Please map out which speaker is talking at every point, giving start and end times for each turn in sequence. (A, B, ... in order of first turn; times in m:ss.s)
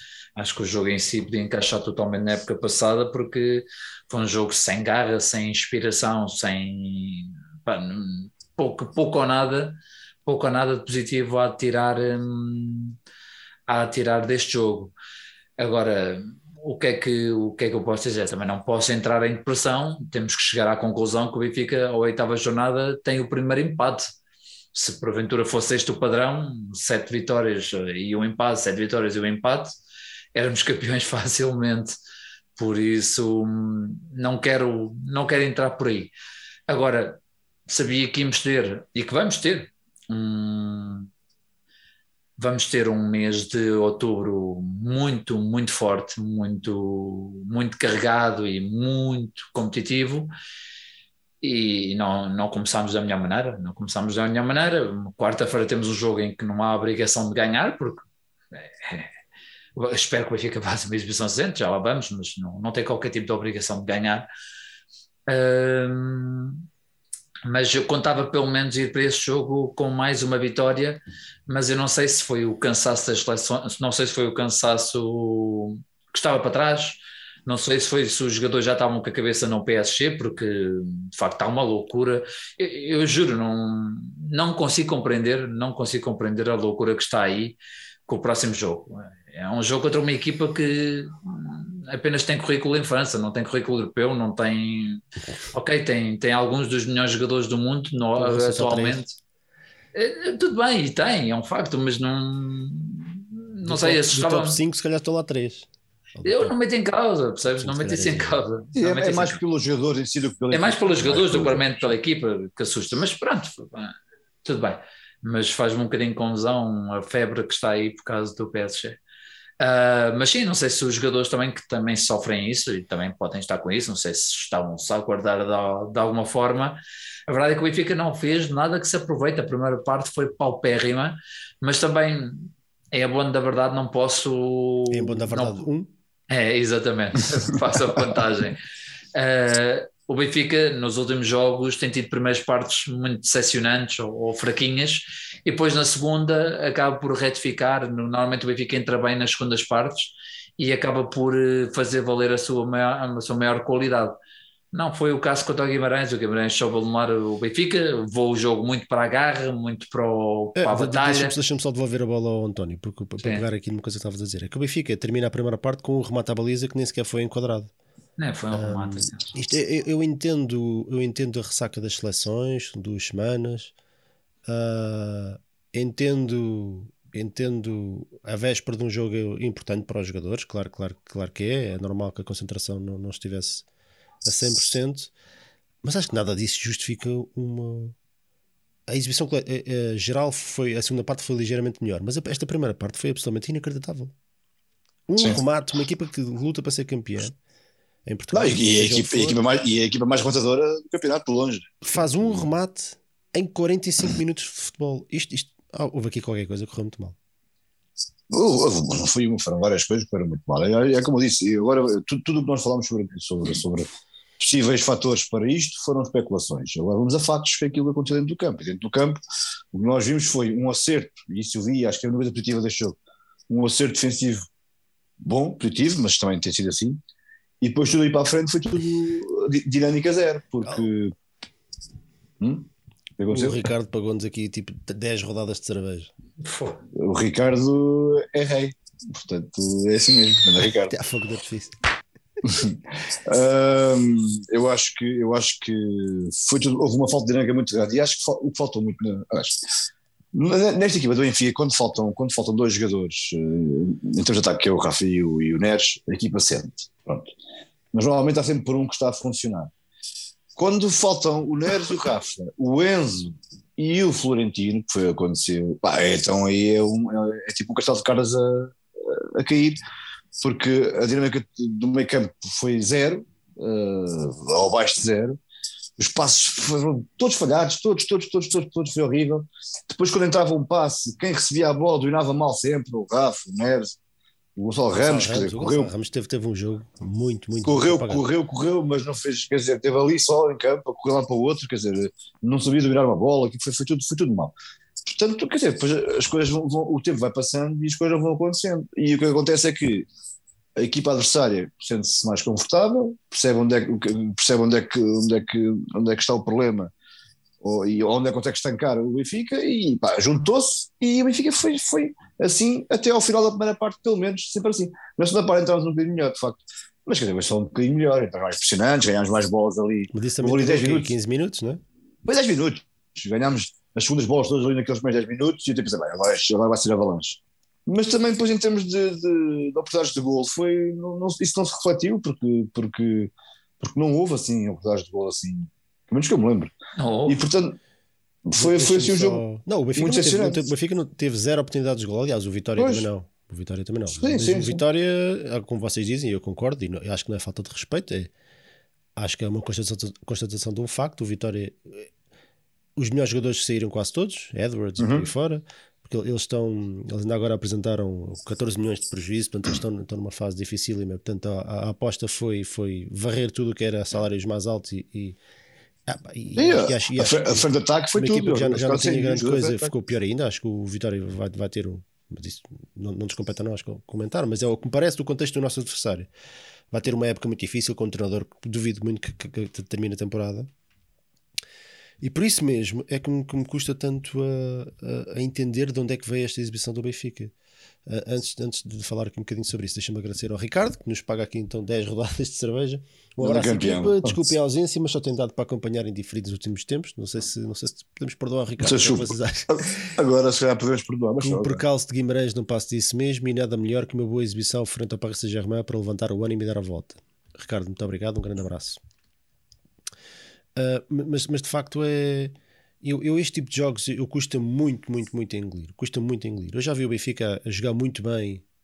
0:00.4-0:13.0 A
0:13.7-0:14.9 A
0:15.6-0:24.1 A
0:24.7-0:29.7 A
0:30.3-0:32.0 A
0:32.6-0:36.1 A
0:36.7-0:41.1 A
0:42.4-0:50.3 A
0:51.4-0:59.1 A
0:59.7-1:04.3 A
1:05.3-1:06.6 A
1:07.4-1:39.1 A
1:38.2-1:39.0 B
1:39.9-1:44.6 A
1:43.6-1:46.5 B
1:46.2-1:49.4 A
1:47.6-1:48.4 B
1:48.7-1:51.9 C
1:50.5-1:59.0 A
1:59.6-2:15.6 A
2:14.9-2:15.9 B
2:16.3-2:18.6 A
2:19.1-2:34.2 A
2:34.7-2:41.3 A
2:40.6-2:47.7 B
2:43.2-2:43.4 A
2:48.2-2:49.3 A
2:48.5-2:53.7 B
2:54.4-3:03.6 B
3:04.2-3:05.1 B
3:05.8-3:07.9 B
3:08.9-3:14.1 B
3:15.1-3:17.4 B
3:18.0-3:19.4 B
3:18.3-3:22.5 C
3:21.8-3:27.2 B
3:28.3-3:33.9 C
3:34.4-3:39.2 C
3:39.7-3:43.0 C
3:43.5-3:44.4 C
3:45.2-3:47.0 C
3:47.6-3:51.1 C
3:52.4-3:52.7 C
3:53.2-3:53.7 C
3:53.3-3:56.1 B
3:56.4-3:56.8 A
3:56.9-4:01.0 C
4:00.9-4:01.8 B
4:02.4-4:09.6 C
4:10.3-4:17.3 C
4:17.9-4:19.7 C
4:20.6-4:29.8 C
4:30.4-4:35.4 C
4:36.0-4:44.0 C
4:44.6-4:45.9 C
4:45.0-4:48.2 B
4:47.6-5:00.1 C
5:00.8-5:06.9 C
5:07.6-5:21.1 C
5:20.1-5:21.8 B
5:22.2-5:36.7 C
5:37.0-5:37.4 A
5:37.3-5:37.8 C
5:38.4-5:39.4 C
5:38.6-5:48.3 B
5:39.9-5:40.6 C
5:42.8-5:43.1 C
5:44.1-5:44.8 C
5:49.2-5:52.1 B
5:53.0-6:05.4 B
5:55.0-5:55.3 C
6:06.1-6:16.3 B
6:06.6-6:09.9 C
6:16.9-6:20.7 B
6:22.2-6:27.5 B
6:28.1-6:39.7 B
6:33.4-6:34.4 C
6:38.8-6:41.8 C
6:41.4-6:49.0 B
6:50.8-6:58.6 B